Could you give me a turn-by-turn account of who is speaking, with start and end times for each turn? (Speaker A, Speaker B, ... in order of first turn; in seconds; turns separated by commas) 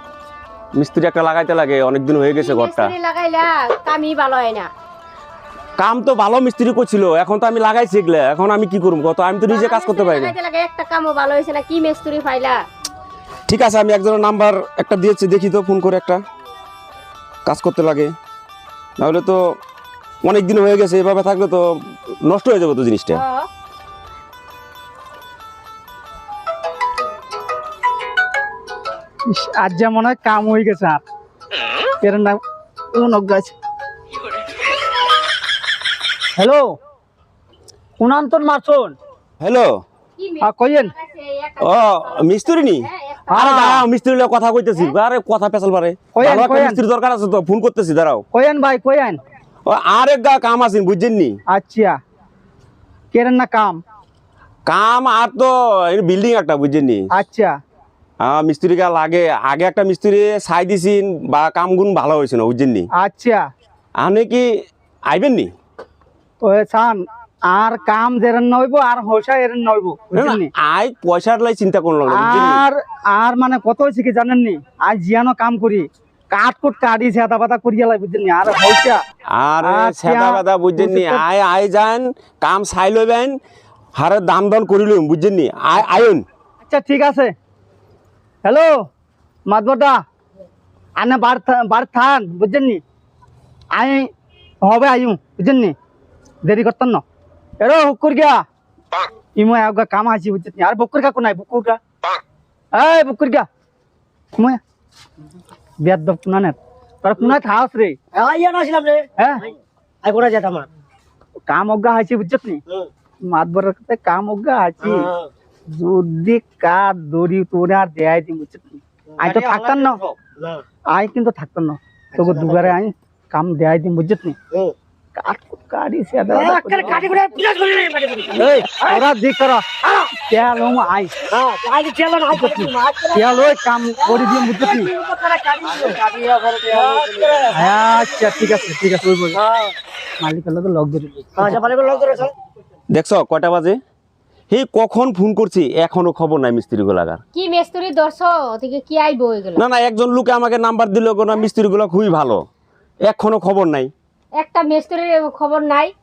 Speaker A: 0.8-2.9, Speaker B: 2.4-4.7, Speaker A: 5.8-10.3, Speaker B: 9.5-12.6, Speaker A: 13.5-16.2, Speaker A: 17.4-18.1, Speaker A: 19.0-19.4, Speaker A: 20.2-21.6, Speaker A: 22.2-23.2, Speaker B: 23.1-23.5, Speaker C: 29.3-31.0, Speaker C: 32.0-32.4, Speaker C: 32.9-33.5, Speaker C: 36.4-36.7, Speaker C: 38.0-38.9, Speaker A: 39.4-39.7, Speaker B: 40.2-43.5, Speaker C: 40.4-40.9, Speaker A: 41.6-48.2, Speaker C: 43.3-43.8, Speaker C: 46.1-46.8, Speaker C: 48.3-49.2, Speaker A: 49.6-51.4, Speaker C: 51.5-52.0, Speaker C: 53.1-53.8, Speaker A: 54.6-57.0, Speaker C: 57.1-57.5, Speaker A: 58.2-62.9, Speaker C: 63.0-63.4, Speaker A: 64.0-64.5, Speaker A: 65.0-65.5, Speaker C: 66.4-70.5, Speaker A: 70.1-72.6, Speaker C: 72.1-79.0, Speaker A: 79.3-83.3, Speaker C: 79.6-81.2, Speaker A: 83.9-86.2, Speaker C: 86.7-87.3, Speaker C: 88.4-88.7, Speaker C: 89.5-90.0, Speaker C: 91.0-92.8, Speaker C: 93.7-94.1, Speaker C: 94.6-95.7, Speaker C: 96.4-97.0, Speaker C: 97.6-98.4, Speaker C: 99.3-101.8, Speaker C: 102.7-103.5, Speaker C: 105.8-108.0, Speaker D: 108.1-109.1, Speaker C: 109.2-109.4, Speaker D: 110.0-110.7, Speaker C: 111.5-112.6, Speaker C: 113.3-115.1, Speaker D: 115.0-115.3, Speaker C: 115.7-120.0, Speaker D: 120.3-120.6, Speaker C: 120.9-124.3, Speaker D: 122.2-122.7, Speaker C: 125.2-127.1, Speaker D: 126.3-128.4, Speaker C: 128.3-129.6, Speaker C: 130.2-131.1, Speaker D: 131.3-133.5, Speaker C: 132.3-134.9, Speaker D: 134.0-136.0, Speaker C: 135.6-139.4, Speaker D: 136.7-138.4, Speaker D: 139.3-139.7, Speaker C: 140.2-141.6, Speaker D: 141.4-142.3, Speaker A: 142.9-143.8, Speaker A: 144.5-147.2, Speaker B: 147.3-149.6, Speaker A: 149.6-152.4, Speaker A: 153.1-153.9, Speaker B: 154.3-155.9